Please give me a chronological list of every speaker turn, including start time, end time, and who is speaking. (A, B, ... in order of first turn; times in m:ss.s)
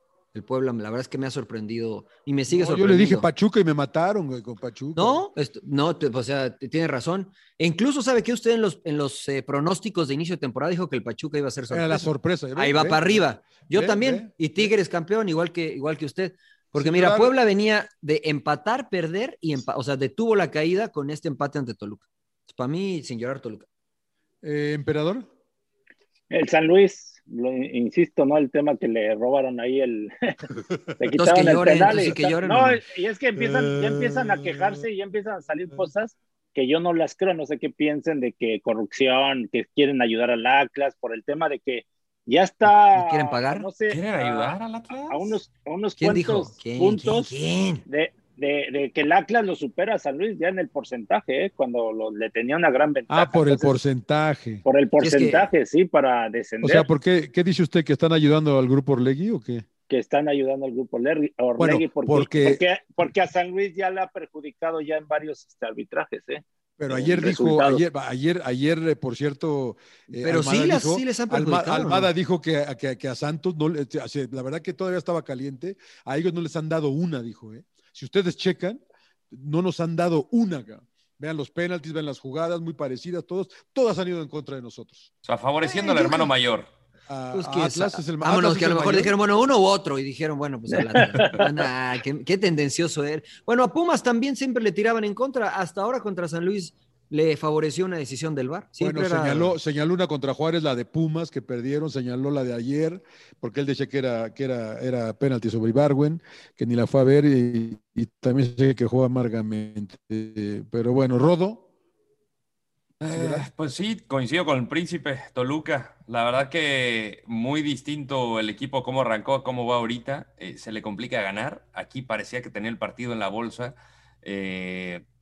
0:00.3-0:03.3 A
0:02.5-0:05.2 B
0:05.0-0:23.6 A
0:11.7-0:14.7 B
0:16.7-0:17.3 B
0:24.4-0:25.3 B
0:26.3-0:30.4 C
0:31.0-0:44.6 C
0:31.1-0:32.8 A
0:33.4-0:34.8 B
0:42.6-0:43.7 A
0:43.9-0:45.4 D
0:45.1-0:47.3 C
0:46.0-0:47.8 A
0:47.9-0:53.8 C
0:53.1-0:54.6 B
0:54.6-0:56.9 C
0:55.0-0:55.5 A
0:56.6-0:59.6 B
0:59.9-1:07.8 C
1:01.6-1:02.6 B
1:06.8-1:25.1 B
1:10.2-1:12.1 A
1:25.2-1:26.7 D
1:25.6-1:26.3 A
1:27.1-1:29.1 B
1:27.3-1:39.5 A
1:31.0-1:31.4 C
1:38.8-1:51.6 B
1:53.0-2:05.0 D
1:53.1-1:53.5 B